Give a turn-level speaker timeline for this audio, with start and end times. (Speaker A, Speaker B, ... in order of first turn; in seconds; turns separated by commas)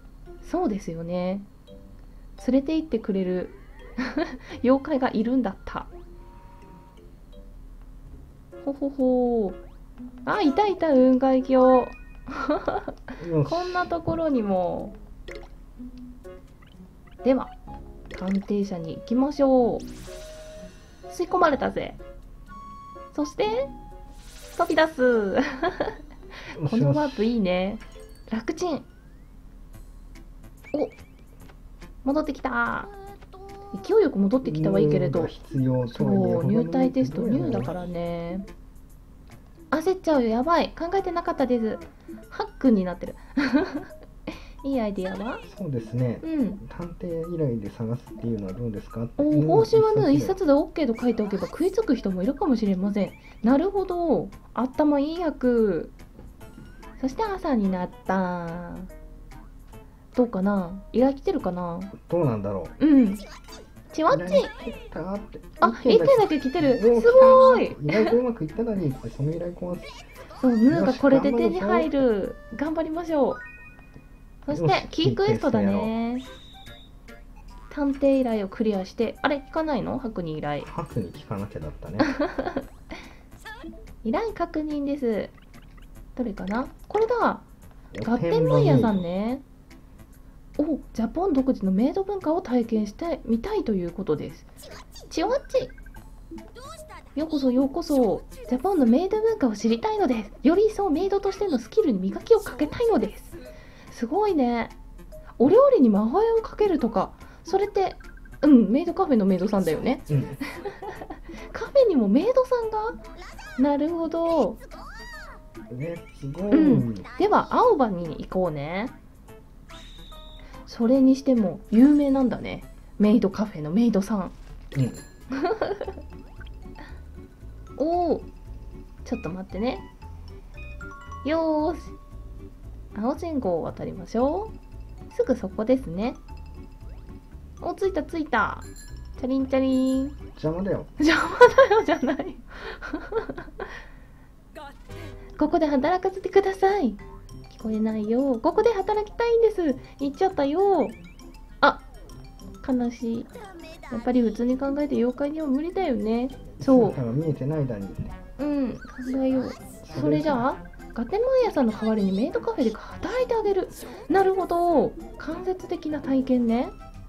Speaker A: 0.4-1.5, Speaker A: 2.4-5.9, Speaker A: 8.6-9.6, Speaker A: 10.2-15.0, Speaker B: 13.2-13.9, Speaker A: 17.2-17.5, Speaker A: 18.1-19.9, Speaker A: 21.1-22.0, Speaker A: 23.1-23.7, Speaker A: 24.5-26.0, Speaker B: 26.6-27.2, Speaker A: 26.6-28.9, Speaker A: 32.0-32.9, Speaker A: 33.7-35.3, Speaker B: 34.4-37.8, Speaker A: 35.9-38.5, Speaker A: 39.7-43.9, Speaker A: 44.6-45.4, Speaker B: 45.5-50.4, Speaker A: 46.2-46.6, Speaker A: 49.2-55.9, Speaker A: 57.0-58.9, Speaker A: 60.1-61.9, Speaker B: 62.0-62.7, Speaker A: 62.8-63.2, Speaker A: 63.9-64.5, Speaker B: 64.1-70.0, Speaker A: 65.6-68.1, Speaker A: 70.4-73.4, Speaker B: 70.7-71.9, Speaker A: 74.4-76.2, Speaker B: 74.5-75.9, Speaker A: 77.7-80.7, Speaker B: 80.6-82.1, Speaker A: 82.0-82.6, Speaker A: 84.0-85.3, Speaker A: 86.2-87.4, Speaker B: 87.9-89.0, Speaker A: 88.0-89.4, Speaker A: 90.6-94.5, Speaker A: 95.1-95.7, Speaker A: 97.1-103.3, Speaker A: 103.9-104.7, Speaker A: 105.4-113.0, Speaker B: 110.1-110.4, Speaker A: 113.6-114.6, Speaker B: 115.7-117.0, Speaker A: 116.5-118.9, Speaker A: 120.7-124.3, Speaker B: 124.7-125.0, Speaker A: 125.3-125.9, Speaker A: 127.8-128.3, Speaker A: 129.0-129.8, Speaker A: 131.2-131.9, Speaker A: 132.9-134.5, Speaker A: 135.1-136.2, Speaker A: 137.6-140.2, Speaker B: 140.3-140.9, Speaker A: 141.0-143.5, Speaker A: 145.4-151.0, Speaker A: 152.6-153.3, Speaker A: 153.9-157.0, Speaker B: 156.6-158.1, Speaker A: 158.4-166.7, Speaker B: 159.8-160.4